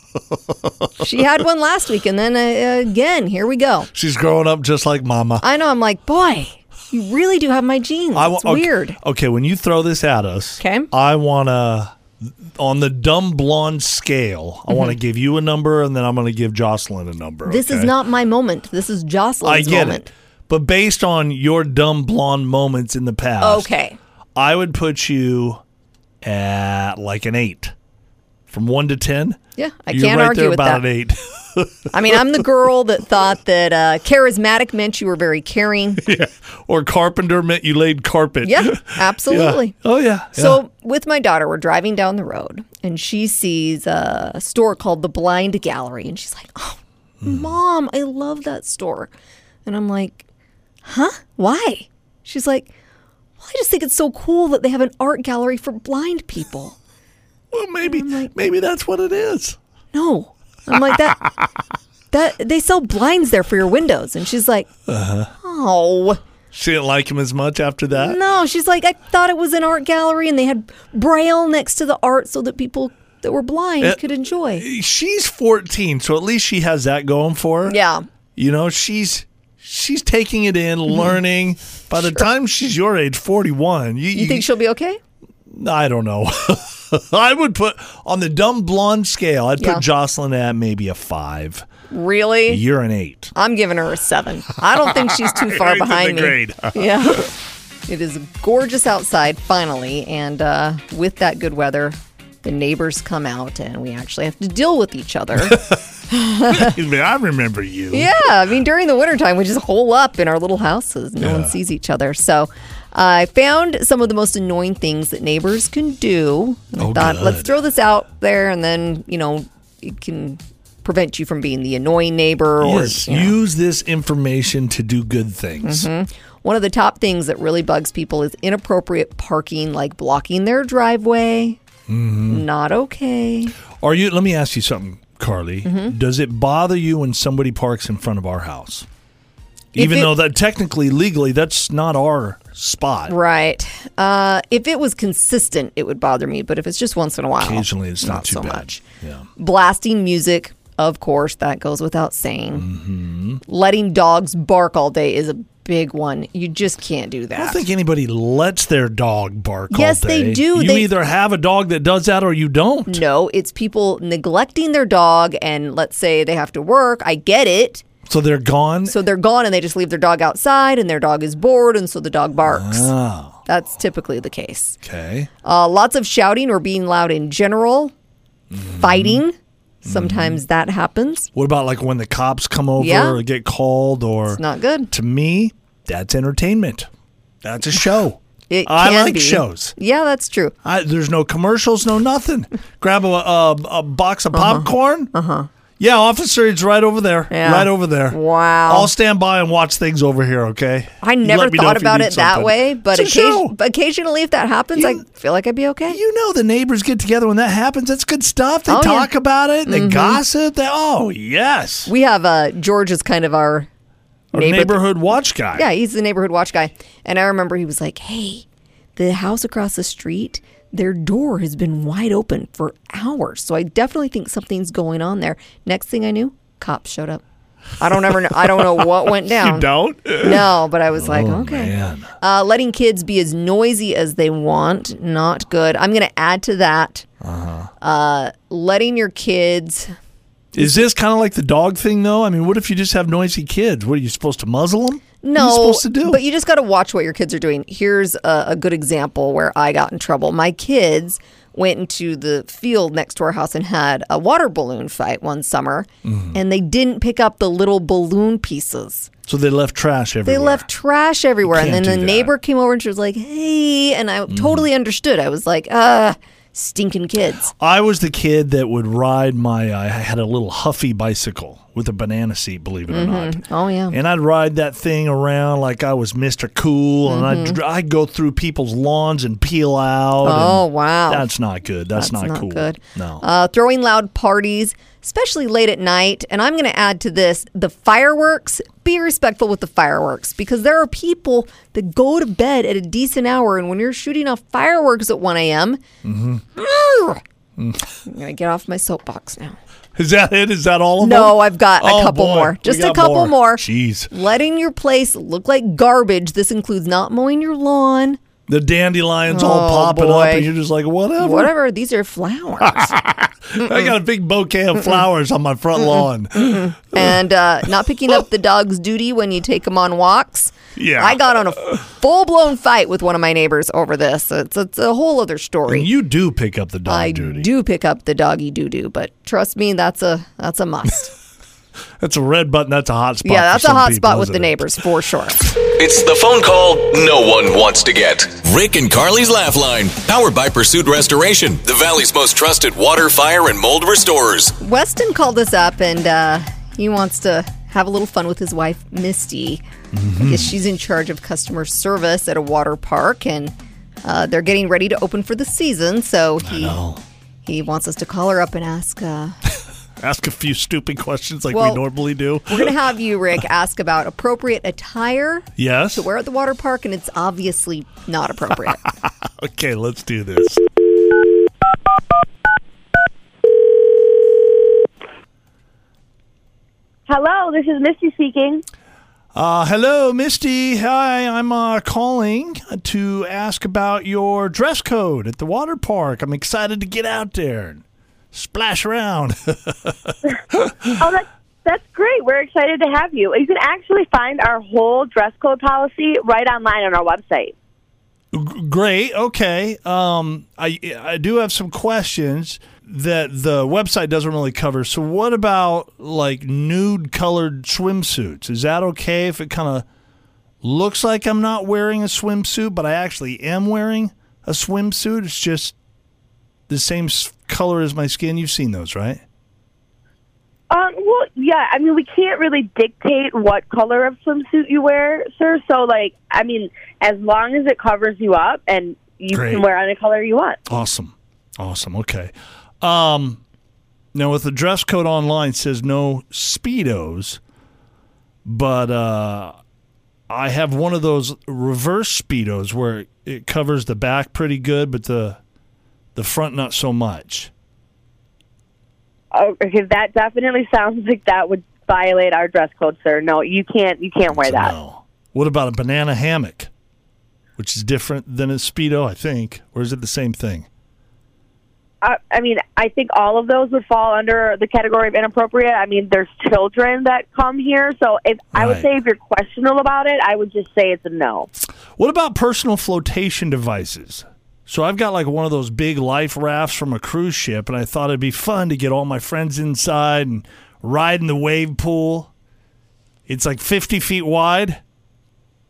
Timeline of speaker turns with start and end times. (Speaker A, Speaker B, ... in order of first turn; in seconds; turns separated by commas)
Speaker A: 0.3-0.9, Speaker B: 1.0-3.9, Speaker A: 3.9-5.4, Speaker B: 5.4-9.0, Speaker A: 8.1-17.9, Speaker B: 10.6-10.9, Speaker B: 14.7-14.9, Speaker B: 17.5-20.1, Speaker A: 19.4-23.7, Speaker B: 23.4-24.0, Speaker A: 24.4-25.6, Speaker A: 26.2-27.7, Speaker A: 28.5-29.4, Speaker B: 29.6-30.8, Speaker A: 29.9-32.4, Speaker B: 31.9-36.0, Speaker A: 36.0-40.6, Speaker B: 38.4-39.8, Speaker B: 40.3-49.1, Speaker A: 47.2-47.5, Speaker B: 49.6-50.2, Speaker B: 50.8-52.7, Speaker B: 53.4-56.8, Speaker A: 57.5-59.6, Speaker B: 57.8-58.3, Speaker B: 59.9-61.3, Speaker B: 62.1-64.7, Speaker A: 64.9-65.3, Speaker B: 65.4-66.2, Speaker A: 66.5-68.2, Speaker B: 67.9-74.6, Speaker A: 74.5-77.8, Speaker B: 77.7-78.0, Speaker A: 78.4-84.5, Speaker B: 82.0-82.2, Speaker B: 84.1-85.0, Speaker A: 85.5-91.6, Speaker B: 89.6-89.8, Speaker B: 91.9-92.6, Speaker A: 92.5-93.3, Speaker B: 93.3-97.3, Speaker A: 94.7-97.2, Speaker B: 97.9-106.8, Speaker A: 105.4-105.8, Speaker A: 106.5-108.1, Speaker B: 107.9-123.3, Speaker A: 111.2-111.5, Speaker A: 116.8-117.5, Speaker A: 122.6-125.9, Speaker B: 125.6-131.6, Speaker A: 131.9-132.5, Speaker B: 132.3-133.5, Speaker A: 133.8-138.9, Speaker B: 135.6-135.9, Speaker A: 139.7-143.1, Speaker B: 139.8-140.2, Speaker B: 143.1-148.8, Speaker A: 147.4-149.2, Speaker B: 149.4-152.7, Speaker A: 152.5-153.4, Speaker B: 153.5-157.6, Speaker A: 157.3-163.0, Speaker B: 159.7-160.9, Speaker B: 162.9-167.8, Speaker A: 168.1-169.0, Speaker B: 168.9-172.9, Speaker A: 172.4-173.4, Speaker B: 173.4-174.8, Speaker A: 174.8-175.3, Speaker B: 175.4-177.9, Speaker A: 178.5-179.2, Speaker B: 178.8-181.3, Speaker A: 179.8-180.4, Speaker A: 181.3-186.9, Speaker B: 182.8-183.2, Speaker B: 184.3-184.9, Speaker A: 187.4-189.8, Speaker B: 188.5-190.5, Speaker A: 190.6-195.1, Speaker B: 194.3-195.5, Speaker A: 195.8-203.5, Speaker B: 197.3-198.9, Speaker B: 201.0-206.0, Speaker A: 204.8-205.0, Speaker A: 205.9-211.9, Speaker B: 208.7-209.1, Speaker B: 209.7-210.2, Speaker B: 211.9-213.7, Speaker B: 214.3-214.9, Speaker A: 214.3-215.7, Speaker B: 215.5-218.4, Speaker B: 219.0-227.2, Speaker B: 227.8-237.1, Speaker A: 227.9-232.1, Speaker A: 237.2-237.7, Speaker B: 237.8-239.9, Speaker A: 240.5-246.2, Speaker B: 245.2-259.1, Speaker A: 256.0-256.4, Speaker A: 259.3-260.7, Speaker B: 260.2-267.5, Speaker A: 261.4-262.3, Speaker A: 264.3-264.7, Speaker A: 267.6-283.2, Speaker B: 272.9-274.0, Speaker B: 277.1-277.6, Speaker B: 280.2-281.3, Speaker B: 282.0-295.8, Speaker A: 296.0-296.4, Speaker B: 296.6-297.2, Speaker A: 297.6-297.8, Speaker B: 298.1-299.6, Speaker A: 299.9-304.1, Speaker B: 301.0-308.2, Speaker A: 308.5-311.5, Speaker B: 309.3-310.5, Speaker B: 311.2-313.0, Speaker A: 312.6-317.2, Speaker B: 313.6-313.9, Speaker B: 315.9-325.9, Speaker A: 320.8-321.8, Speaker A: 325.7-327.5, Speaker B: 326.9-331.1, Speaker A: 332.0-334.7, Speaker B: 333.2-335.4, Speaker C: 335.8-344.5, Speaker B: 344.6-349.6, Speaker A: 349.9-350.5, Speaker B: 350.2-356.8, Speaker A: 356.4-357.0, Speaker B: 357.5-359.4, Speaker A: 360.0-362.8, Speaker B: 361.5-361.8, Speaker B: 362.5-368.8, Speaker A: 365.6-366.1, Speaker A: 368.8-370.6, Speaker D: 377.1-378.6, Speaker A: 379.3-391.0, Speaker D: 390.9-397.5, Speaker A: 398.3-409.9, Speaker A: 410.6-415.8, Speaker A: 416.7-419.2, Speaker D: 420.7-430.6, Speaker A: 429.3-429.7, Speaker A: 430.7-433.4, Speaker A: 434.1-437.4, Speaker A: 438.4-439.5, Speaker A: 440.3-445.4, Speaker A: 446.1-447.5, Speaker D: 449.3-454.7, Speaker A: 454.3-456.7, Speaker A: 457.6-460.7, Speaker D: 462.0-471.5, Speaker A: 468.5-468.9, Speaker A: 472.0-482.3, Speaker A: 483.3-484.8